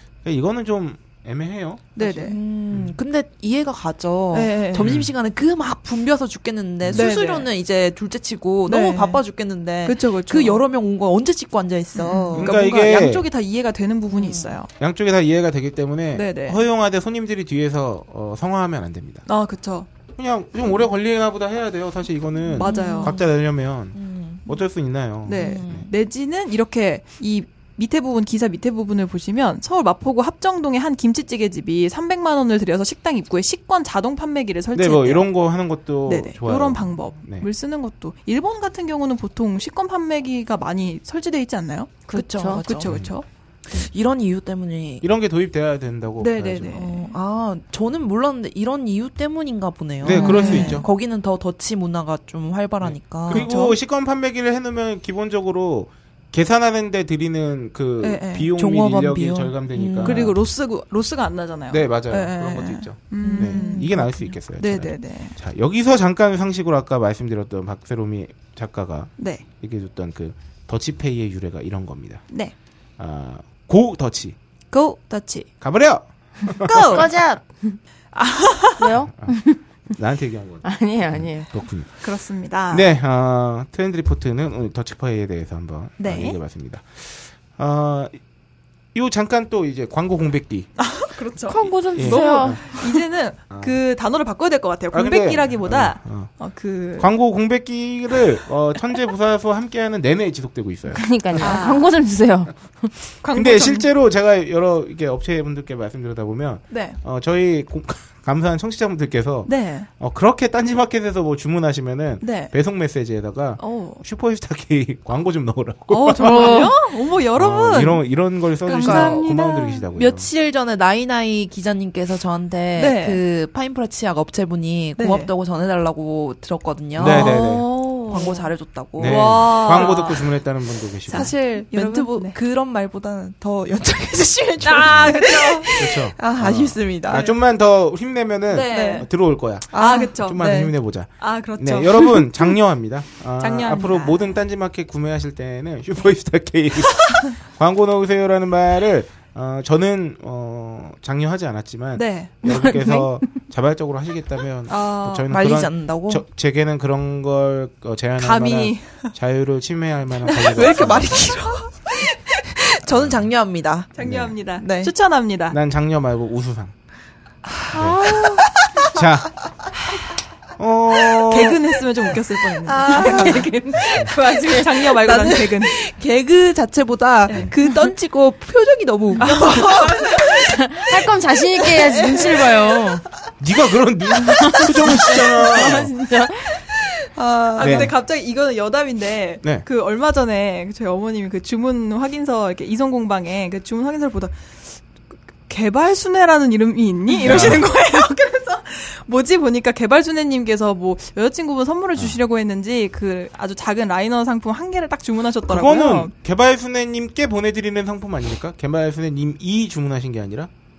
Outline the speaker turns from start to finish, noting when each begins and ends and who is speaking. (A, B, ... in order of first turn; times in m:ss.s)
0:00.2-0:01.9 A
0:02.0-0:02.4 B
0:02.0-0:12.6 C
0:02.7-0:03.0 A
0:04.3-0:04.9 B
0:04.7-0:05.1 A
0:06.8-0:07.1 A
0:06.9-0:07.5 B
0:08.6-0:09.2 B
0:09.8-0:10.6 B
0:11.9-0:14.7 B
0:12.3-0:13.3 A
0:14.1-0:14.6 C
0:14.8-0:19.3 A
0:16.1-0:16.6 B
0:19.3-0:19.9 B
0:20.2-0:25.8 A
0:22.5-0:23.3 C
0:22.6-0:23.1 B
0:23.9-0:24.5 C
0:25.2-0:35.3 B
0:25.3-0:25.9 C
0:34.7-0:37.5 A
0:36.0-0:43.2 B
0:42.1-0:42.6 D
0:42.1-0:43.0 C
0:42.8-0:43.1 A
0:43.7-0:45.0 C
0:45.0-0:46.9 A
0:46.2-0:47.1 B
0:46.7-0:53.5 C
0:50.0-0:50.8 A
0:50.1-0:50.8 B
0:50.2-0:50.5 D
0:52.8-1:00.4 A
0:53.3-0:53.8 B
0:58.0-0:58.5 B
0:58.6-1:00.3 C
1:00.0-1:05.4 B
1:01.7-1:12.2 A
1:03.2-1:04.2 C
1:09.2-1:09.4 B
1:12.3-1:12.5 B
1:13.0-1:14.4 A
1:14.7-1:15.5 B
1:15.6-1:17.0 A
1:16.6-1:17.0 B
1:16.7-1:17.8 D
1:18.1-1:18.9 B
1:18.8-1:19.6 D
1:19.0-1:19.4 A
1:19.9-1:22.0 A
1:20.6-1:21.5 D
1:22.0-1:22.9 B
1:22.7-1:28.2 A
1:26.0-1:26.4 B
1:28.9-1:30.8 A
1:30.8-1:37.1 B
1:31.5-1:32.9 D
1:31.6-1:32.6 A
1:33.5-1:33.8 A
1:34.9-1:36.3 A
1:37.0-1:41.6 A
1:40.9-1:42.9 D
1:41.4-1:41.9 B
1:43.2-1:43.9 B
1:43.3-1:56.7 A
1:46.7-1:47.0 B
1:49.4-1:49.9 B
1:52.2-1:52.5 B
1:53.6-1:54.0 B
1:55.9-1:58.0 B
1:56.2-1:56.7 D
1:57.3-2:00.3 A
1:58.6-1:59.9 B
1:58.7-1:59.3 C
1:59.9-2:10.0 C
2:02.8-2:03.2 B
2:05.0-2:05.3 B
2:07.0-2:07.7 A
2:07.0-2:10.4 B
2:09.0-2:11.3 A
2:11.1-2:12.4 B
2:11.1-2:17.3 C
2:14.6-2:15.7 B
2:14.8-2:15.1 A
2:15.8-2:41.1 A
2:17.1-2:17.3 B
2:18.5-2:19.1 C
2:18.7-2:19.1 B
2:19.7-2:20.7 C
2:19.7-2:22.4 B
2:23.4-2:24.4 B
2:31.9-2:32.3 B
2:32.4-2:33.1 D
2:34.7-2:35.3 B
2:35.3-2:36.2 C
2:38.2-2:39.1 B
2:40.3-2:41.2 B
2:40.3-2:44.9 C
2:42.8-2:43.3 A
2:43.9-2:45.6 B
2:44.0-2:44.3 A
2:45.5-2:46.7 A
2:47.5-2:48.9 C
2:47.7-2:48.0 A
2:47.7-2:48.4 B
2:48.8-2:49.4 A
2:50.6-2:51.6 A
2:51.3-2:55.7 B
2:52.6-3:02.6 C
2:57.3-2:57.8 B
2:59.2-3:00.2 B
3:00.6-3:03.0 D
3:03.4-3:05.9 A
3:04.4-3:04.7 D
3:05.4-3:06.5 D
3:05.5-3:06.1 B
3:07.1-3:07.9 C
3:07.5-3:14.8 B
3:07.6-3:08.0 A
3:15.4-3:26.1 B
3:17.2-3:17.7 A
3:25.4-3:30.5 A